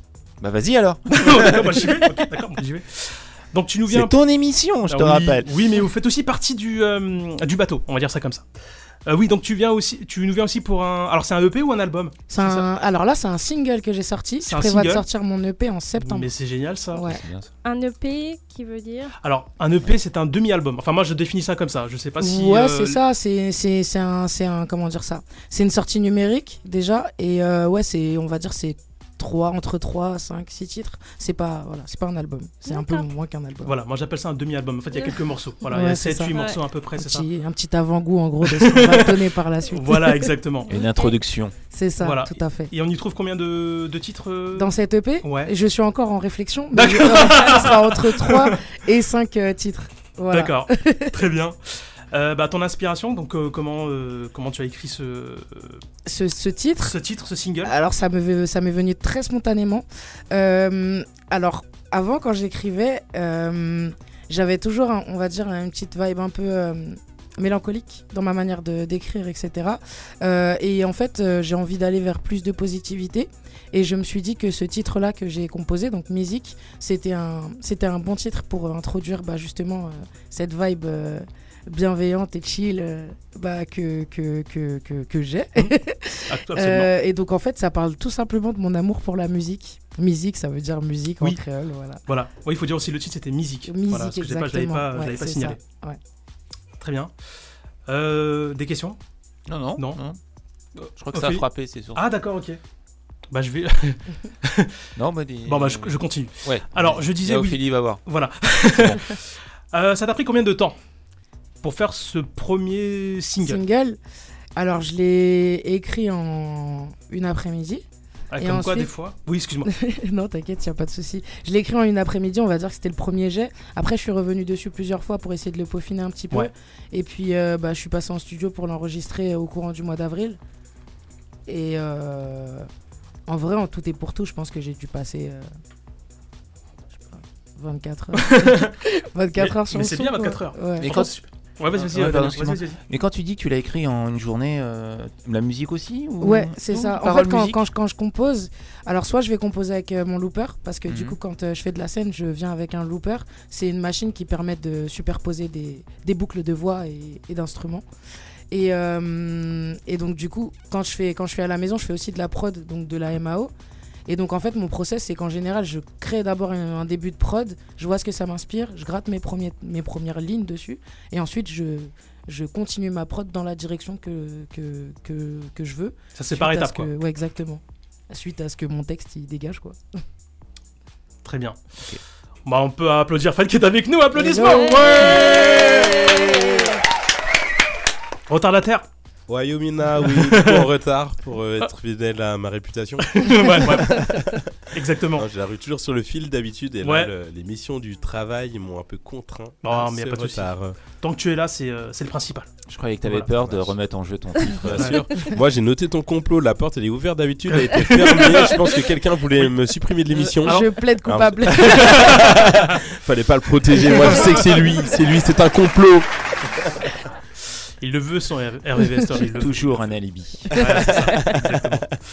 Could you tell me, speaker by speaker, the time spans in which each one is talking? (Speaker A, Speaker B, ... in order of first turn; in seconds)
Speaker A: 0.4-1.8, 3.9-5.5, 17.1-17.5, 40.7-41.5, 99.5-100.2, 101.0-102.1, 105.0-108.0, 108.7-109.0, 140.8-141.1, 141.7-147.6, 150.9-151.2, 202.7-204.9, 219.2-221.8
Speaker B: 1.1-4.1, 4.9-8.4, 9.1-12.7, 14.4-15.1, 16.0-17.1, 19.2-23.0, 33.6-37.2, 38.4-40.7, 42.0-45.5, 46.7-48.6, 50.3-51.6, 52.1-55.8, 56.8-57.7, 86.3-86.9, 92.1-95.6, 96.8-97.1, 97.9-99.0, 100.8-102.6, 103.3-104.7, 105.4-109.2, 109.7-110.8, 111.6-113.6, 118.3-119.7, 138.2-138.7, 139.4-142.8, 176.2-176.9, 181.2-181.6, 182.4-186.4, 188.3-188.9, 190.0-190.7, 193.1-195.2, 196.8-197.1, 199.6-202.5, 203.0-203.3, 204.7-205.0, 207.5-208.8, 210.4-210.7, 211.6-212.7, 214.0-214.4, 217.8-219.8, 220.5-221.9
Speaker C: 12.3-16.3, 16.9-17.2, 22.2-33.8, 35.7-36.3, 37.0-40.3, 41.7-42.7, 44.5-51.1, 56.1-57.0, 57.6-92.0, 93.7-96.0, 113.4-114.0, 114.6-117.8, 118.4-118.9, 119.7-130.4, 131.5-132.7, 133.3-135.5, 137.1-141.1, 146.2-157.8, 158.5-163.5, 164.1-179.8, 184.1-185.4, 210.1-212.1
Speaker D: 17.6-19.1, 32.7-33.0, 36.3-36.6, 40.7-41.1, 184.4-186.8
Speaker E: 189.3-194.4, 195.2-200.8, 204.6-216.1, 220.6-221.4